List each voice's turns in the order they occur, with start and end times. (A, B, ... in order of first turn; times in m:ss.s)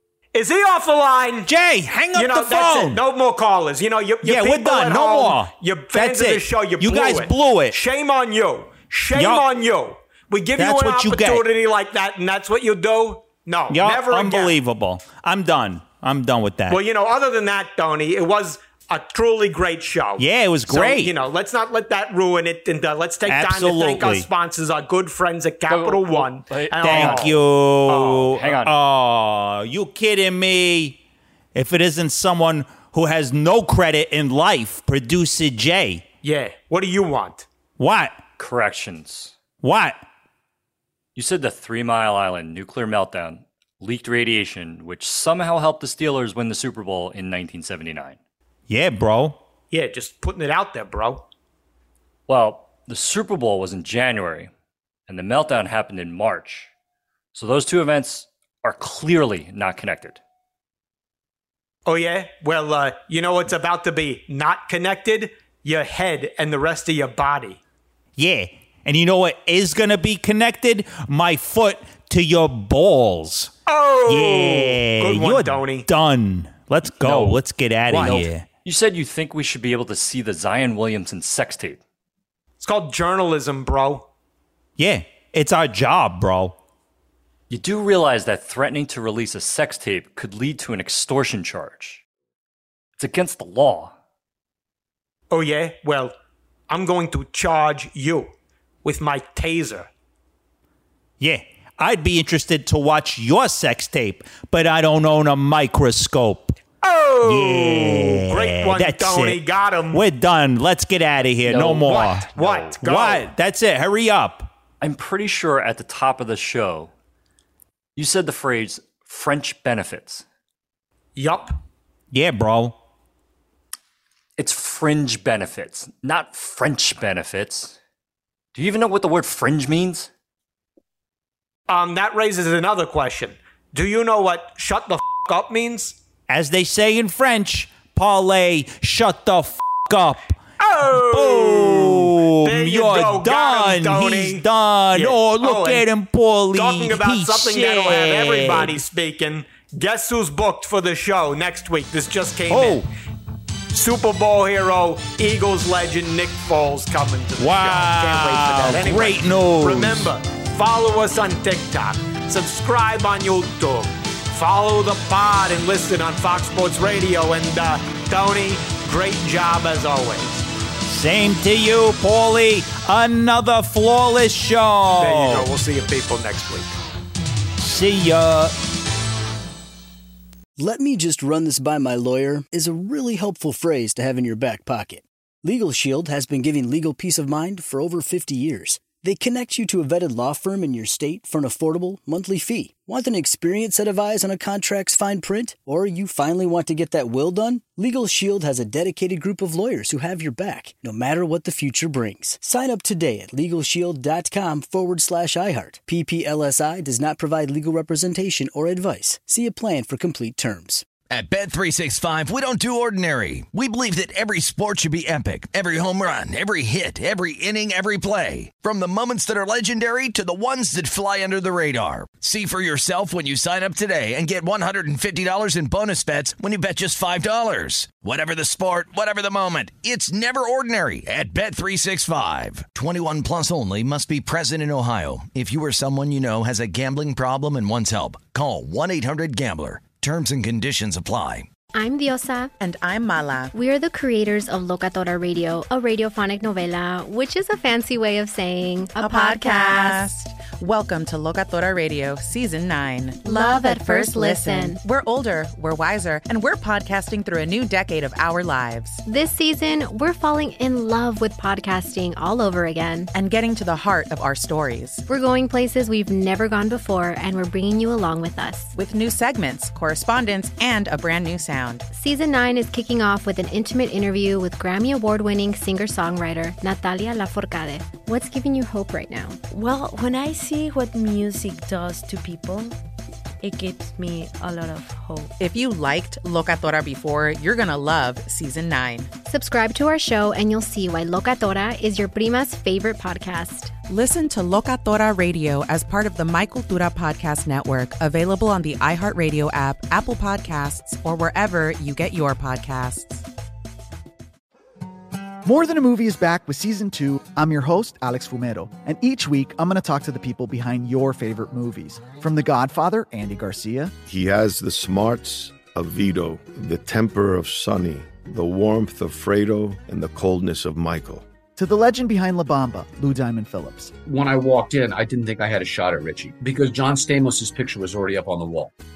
0:00.3-0:01.5 A
0:01.5-0:03.0 B
0:02.1-0:14.6 A
0:04.2-0:07.8 B
0:09.1-0:09.4 B
0:10.6-0:11.4 B
0:13.7-0:16.8 B
0:16.7-0:28.4 A
0:20.2-0:21.1 B
0:23.3-0:24.2 B
0:25.7-0:27.4 C
0:26.8-0:31.0 B
0:28.3-0:28.7 C
0:31.5-0:36.0 B
0:36.2-0:37.4 A
0:37.8-0:38.2 B
0:38.4-0:39.3 C
0:39.6-0:40.0 B
0:41.1-0:48.2 C
0:48.7-0:49.4 B
0:49.7-0:51.2 A
0:52.3-0:54.5 C
0:55.1-0:56.7 C
0:57.3-1:00.2 C
1:01.8-1:07.6 A
1:08.2-1:13.5 B
1:13.7-1:15.9 A
1:14.1-1:18.4 B
1:16.9-1:21.8 C
1:17.9-1:18.2 A
1:22.6-1:24.0 A
1:24.8-1:26.5 B
1:27.5-1:32.0 C
1:33.0-1:33.9 C
1:35.3-1:36.1 A
1:36.7-1:38.3 A
1:38.8-1:39.9 A
1:41.2-1:46.5 B
1:46.8-1:50.0 A
1:47.2-1:49.4 B
1:49.9-1:54.5 B
1:51.4-1:52.8 C
1:51.5-1:53.3 A
1:54.8-1:56.9 C
1:58.0-2:00.2 C
2:01.2-2:01.6 A
2:02.1-2:02.7 B
2:04.4-2:07.8 C
2:08.5-2:10.1 C
2:11.7-2:16.0 A
2:16.3-2:20.4 B
2:20.6-2:25.8 A
2:20.9-2:28.8 B
2:26.5-2:32.8 A
2:32.5-2:32.8 B
2:33.7-2:50.4 A
2:37.4-2:40.1 B
2:50.9-2:55.5 B
2:55.0-2:56.7 A
2:57.6-2:58.5 B
3:00.6-3:30.8 D
3:31.1-4:01.5 E
4:01.7-4:02.5 F
4:02.6-4:03.5 G
4:03.5-4:10.0 F
4:09.0-4:19.0 G
4:13.2-4:14.8 F
4:19.0-4:23.1 F
4:23.1-4:25.0 G
4:25.1-4:28.7 F
4:28.8-4:31.8 G
4:31.9-4:39.4 F
4:39.5-4:42.7 H
4:43.4-4:45.3 H
4:45.4-4:49.1 G
4:49.3-4:53.7 F
4:53.9-5:03.2 G
5:05.4-5:13.9 I
5:14.0-5:21.2 J
5:21.6-5:23.9 I
5:24.0-5:28.7 K